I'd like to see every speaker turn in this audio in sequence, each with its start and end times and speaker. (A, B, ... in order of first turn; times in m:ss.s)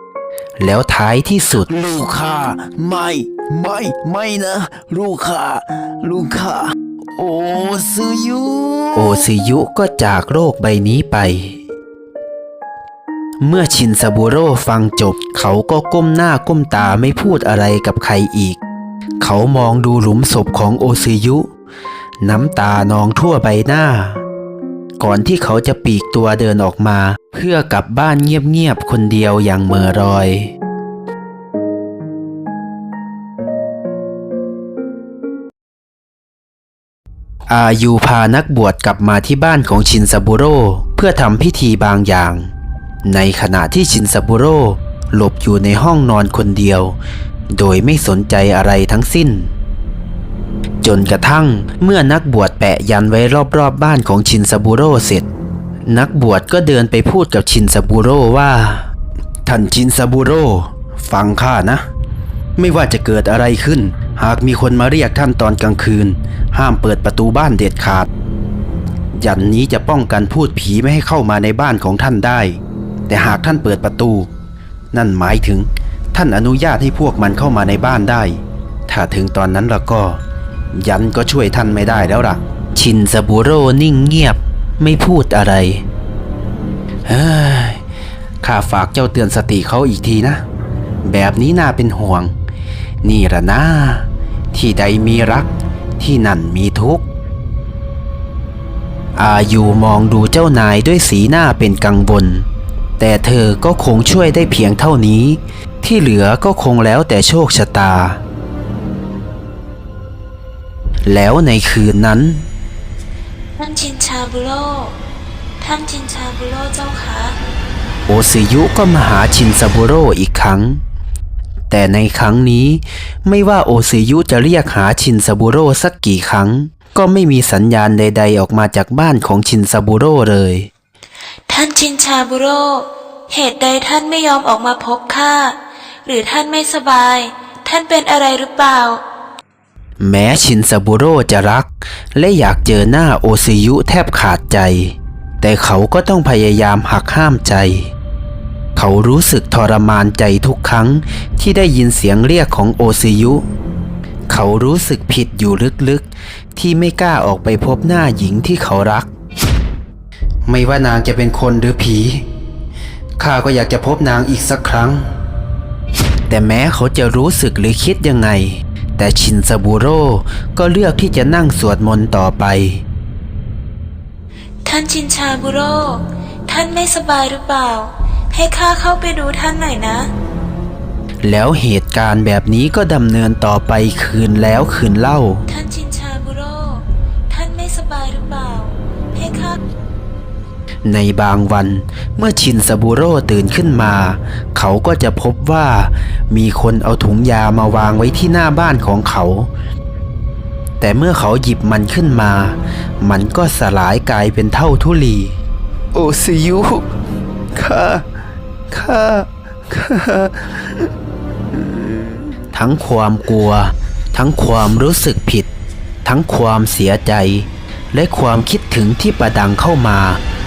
0:00.6-0:01.7 A
0:01.7-0:02.8 B
0:02.7-0:04.5 A
0:03.4-0:06.6 B
0:07.2-0:09.0 B
0:08.9-0:11.6 A
0:13.4-0:18.6 A
0:19.2-0:21.5 A
0:22.2-0:24.2 A
0:25.0-0:30.5 A
0:37.5-0:42.5 A
0:43.0-0:47.0 A
0:47.5-0:49.5 A
0:50.8-0:55.2 A
0:55.9-0:58.9 A
0:59.4-1:01.8 A
1:02.6-1:08.1 A
1:09.1-1:14.3 A
1:14.9-1:20.2 A
1:20.7-1:25.8 A
1:27.0-1:27.8 A
1:28.4-1:30.4 A
1:31.0-1:32.3 A
1:33.0-1:37.0 A
1:39.2-1:42.5 A
1:43.0-1:48.2 A
1:51.0-1:52.5 A
1:53.6-1:55.0 C
1:55.6-1:57.4 C
1:58.1-2:00.8 A
2:01.7-2:10.7 A
2:11.5-2:19.0 C
2:20.0-2:27.9 A
2:28.8-2:33.4 A
2:34.3-2:39.1 A
2:40.4-2:42.2 A
2:43.2-2:45.1 A
2:46.3-2:52.8 A
2:54.6-3:00.1 C
3:01.2-3:05.4 A
3:05.5-3:09.6 C
3:10.8-3:19.5 A
3:20.8-3:25.4 A
3:26.0-3:26.6 A
3:26.3-3:26.7 B
3:28.7-3:29.0 A
3:29.8-3:30.2 B
3:32.5-3:35.5 A
3:36.0-3:40.2 A